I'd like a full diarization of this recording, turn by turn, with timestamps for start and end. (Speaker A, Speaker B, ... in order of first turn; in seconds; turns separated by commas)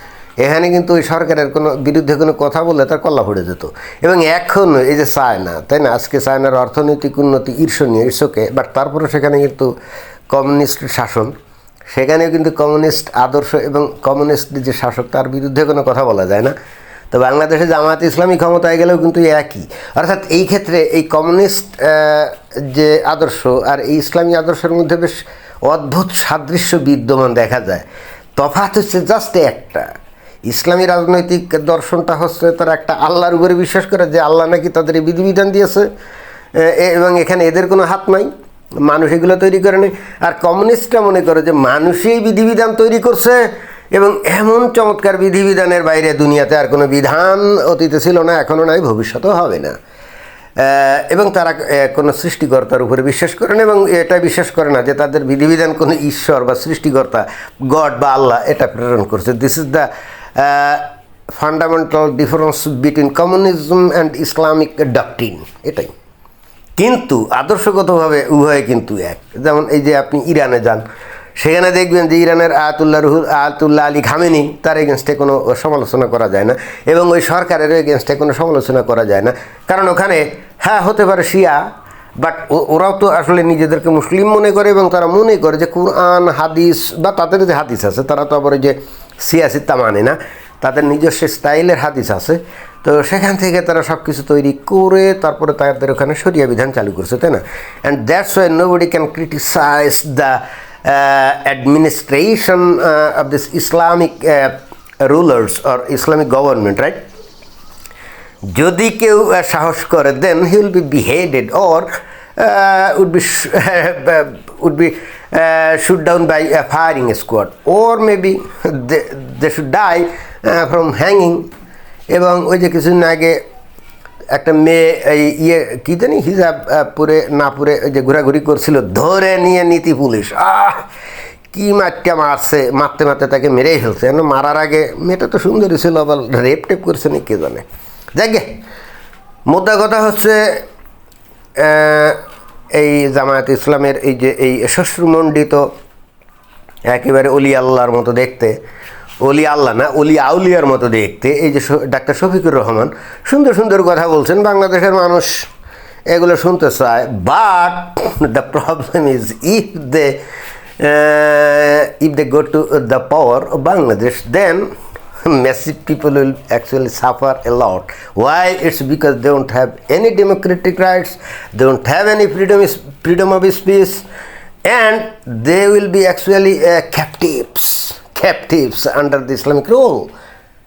Speaker A: 0.4-9.7, Speaker A: 10.3-11.3, Speaker A: 11.9-16.5, Speaker A: 17.1-27.8, Speaker A: 28.4-29.9, Speaker A: 30.4-35.9, Speaker A: 36.5-38.3, Speaker A: 38.8-49.8, Speaker A: 50.6-65.9, Speaker A: 66.8-70.8, Speaker A: 71.3-81.6, Speaker A: 82.2-107.0, Speaker A: 108.5-121.5, Speaker A: 122.1-123.4, Speaker A: 124.3-130.8, Speaker A: 131.5-138.6, Speaker A: 139.4-140.6, Speaker A: 141.6-142.2, Speaker A: 142.7-145.7, Speaker A: 146.8-148.6, Speaker A: 149.2-155.5, Speaker A: 156.1-160.2, Speaker A: 160.8-164.7, Speaker A: 165.2-174.1, Speaker A: 174.6-180.1